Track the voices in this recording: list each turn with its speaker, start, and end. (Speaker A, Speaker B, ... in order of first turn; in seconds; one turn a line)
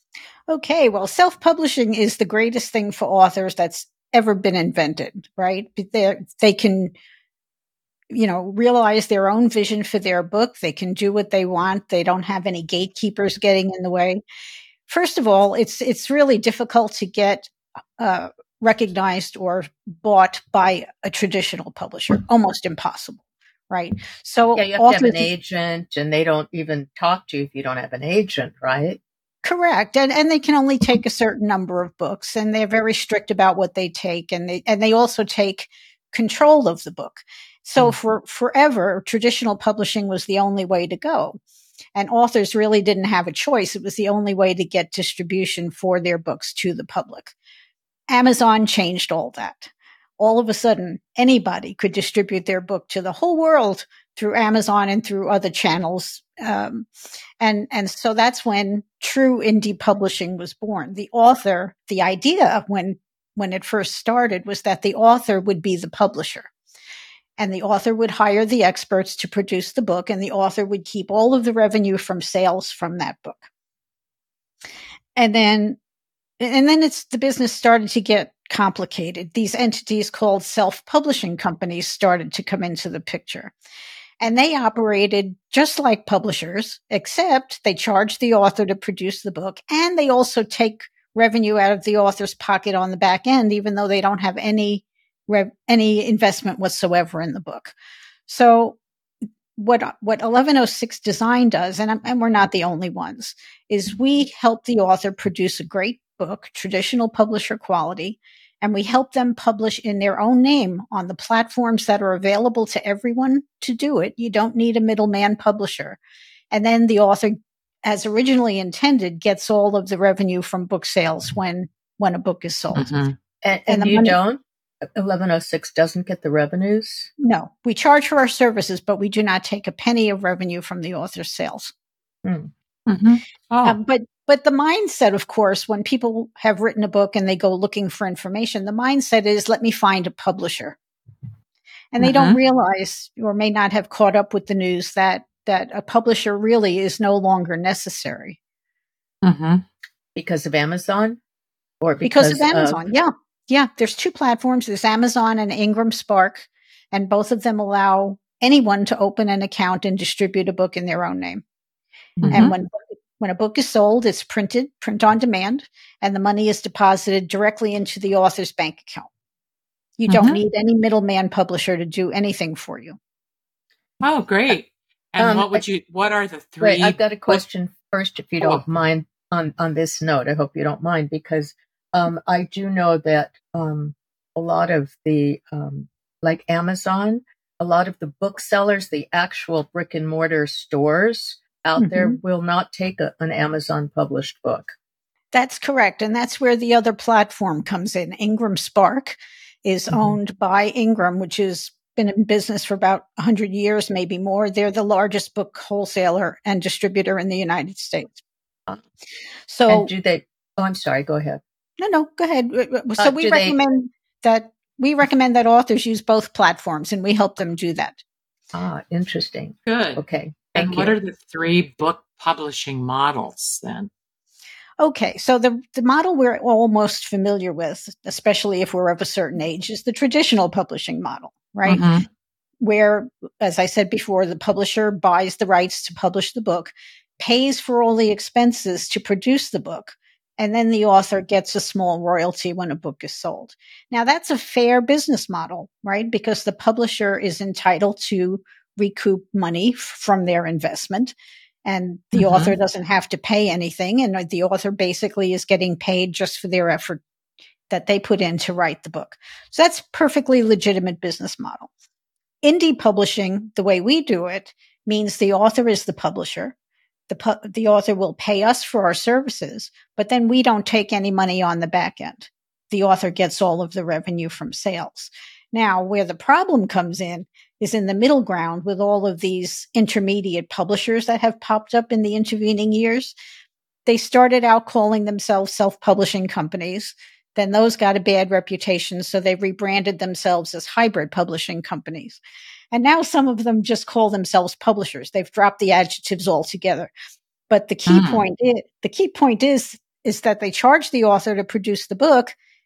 Speaker A: 0.5-6.9
Speaker A: 8.1-14.2
Speaker A: 14.9-25.3
Speaker B: 24.6-29.0
Speaker A: 29.4-41.4
Speaker A: 42.0-47.4
Speaker A: 48.1-56.9
Speaker A: 57.4-66.5
Speaker A: 67.4-73.5
Speaker A: 75.2-75.8
Speaker A: 76.4-83.5
Speaker A: 84.2-97.7
Speaker A: 98.3-98.8
Speaker A: 99.6-116.0
Speaker A: 116.5-122.9
Speaker C: 122.8-123.2
Speaker B: 123.4-124.4
Speaker A: 123.7-124.2
Speaker B: 124.9-127.1
Speaker A: 127.2-131.7
Speaker B: 132.2-132.5
Speaker C: 132.9-133.8
Speaker A: 133.7-140.8
Speaker A: 141.9-148.4
Speaker C: 142.0-142.4
Speaker C: 149.2-149.6
Speaker B: 150.2-151.2
Speaker B: 151.8-152.8
Speaker A: 152.0-161.4
Speaker B: 162.2-162.5
Speaker C: 162.2-162.5
Speaker A: 162.3-169.1
Speaker A: 170.0-173.0
Speaker C: 170.1-170.4
Speaker C: 174.0-177.4
Speaker B: 175.2-175.6
Speaker B: 176.6-194.8
Speaker A: 191.8-192.2
Speaker A: 195.3-208.2
Speaker A: 209.5-209.9
Speaker B: 209.7-211.4
Speaker A: 211.8-218.0
Speaker B: 213.0-213.6
Speaker B: 218.5-220.9
Speaker C: 219.7-220.0
Speaker C: 220.5-223.9
Speaker A: 224.8-231.8
Speaker C: 231.7-232.1
Speaker A: 232.6-251.2
Speaker A: 251.7-257.0
Speaker C: 252.1-252.5
Speaker A: 257.7-261.7
Speaker A: 262.4-266.5
Speaker A: 267.1-283.2
Speaker A: 283.9-292.2
Speaker A: 292.7-296.9
Speaker A: 297.5-302.4
Speaker C: 297.9-298.2